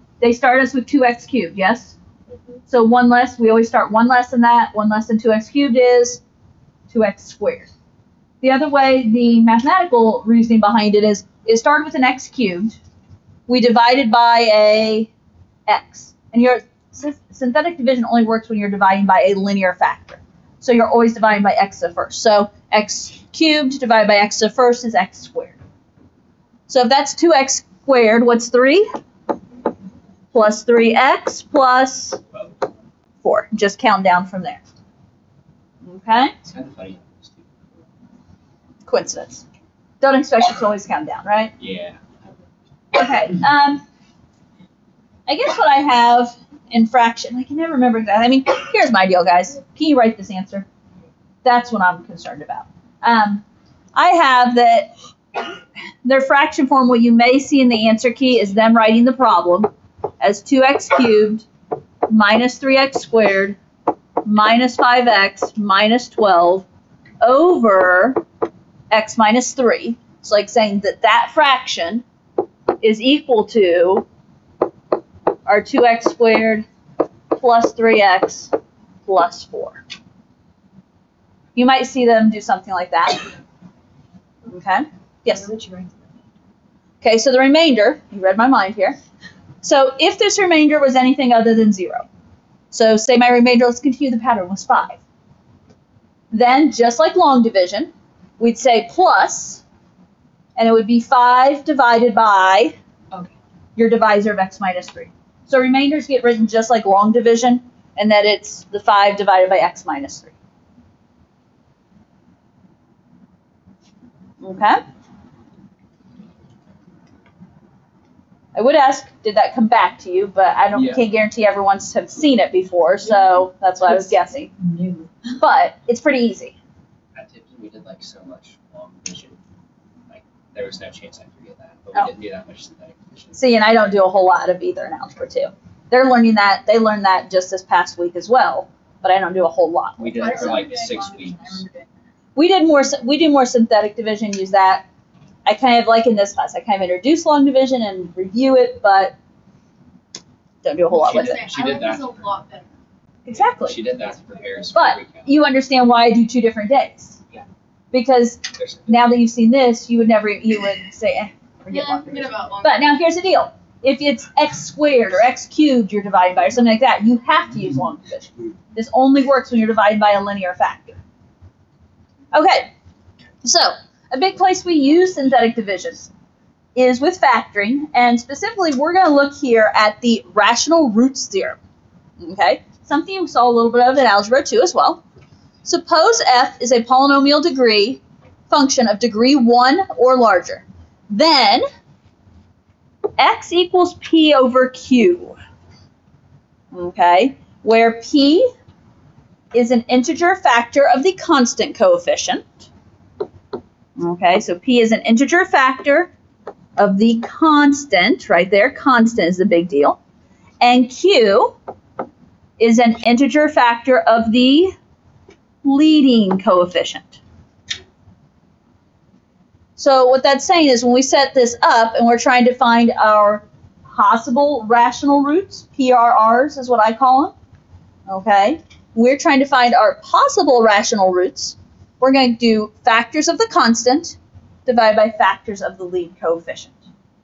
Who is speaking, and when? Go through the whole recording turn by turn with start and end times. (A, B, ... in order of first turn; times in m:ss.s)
0:00.2-0:02.0 A
0:02.7-0:06.2 A
0:06.9-0:07.7 A
0:08.4-0:12.8 A
0:13.5-0:15.1 A
0:15.7-0:25.6 A
0:26.7-0:28.9 A
0:30.3-0:32.2 A
0:32.3-0:32.6 B
0:33.2-0:34.6 A
0:35.8-0:36.3 A
0:36.4-0:37.8 B
0:38.9-0:39.4 A
0:40.0-0:41.5 A
0:41.6-0:42.0 B
0:42.9-0:43.8 A
0:45.3-0:50.7 A
0:51.4-0:54.9 A
0:56.0-1:01.4 A
1:02.1-1:03.6 A
1:04.2-1:06.6 A
1:07.2-1:08.2 A
1:08.9-1:12.0 A
1:12.8-1:14.1 A
1:15.5-1:16.6 A
1:17.3-1:18.5 A
1:19.1-1:19.8 A
1:21.6-1:23.3 A
1:24.5-1:25.5 A
1:25.3-1:26.1 C
1:27.0-1:29.0 A
1:29.6-1:32.1 A
1:32.7-1:35.0 A
1:36.3-1:39.6 A
1:40.6-1:42.8 A
1:43.8-1:50.3 A
1:54.4-1:54.8 A
1:58.6-2:04.5 A
2:00.7-2:01.0 B
2:04.6-2:05.1 C
2:05.4-2:06.6 A
2:07.2-2:09.4 B
2:10.1-2:13.4 B
2:13.4-2:20.7 A
2:20.0-2:21.6 B
2:20.2-2:21.9 C
2:22.4-2:24.9 A
2:25.5-2:29.2 A
2:30.6-2:31.4 A
2:31.0-2:32.3 B
2:31.0-2:32.7 C
2:33.2-2:33.8 A
2:33.3-2:35.3 B
2:33.9-2:34.6 C
2:34.7-2:37.2 A
2:37.9-2:51.0 A
2:38.6-2:39.2 B
2:41.7-2:43.0 C
2:52.3-2:52.7 A
2:53.4-2:56.0 A
2:56.8-3:01.6 A
3:02.2-3:05.0 A
3:05.6-3:11.6 A
3:13.2-3:15.4 A
3:16.7-3:18.5 A
3:19.5-3:22.7 A
3:24.0-3:26.1 A
3:26.8-3:30.0 A
3:30.6-3:31.6 A
3:32.6-3:34.8 A
3:35.6-3:37.2 A
3:39.8-3:47.3 A
3:48.1-3:56.8 A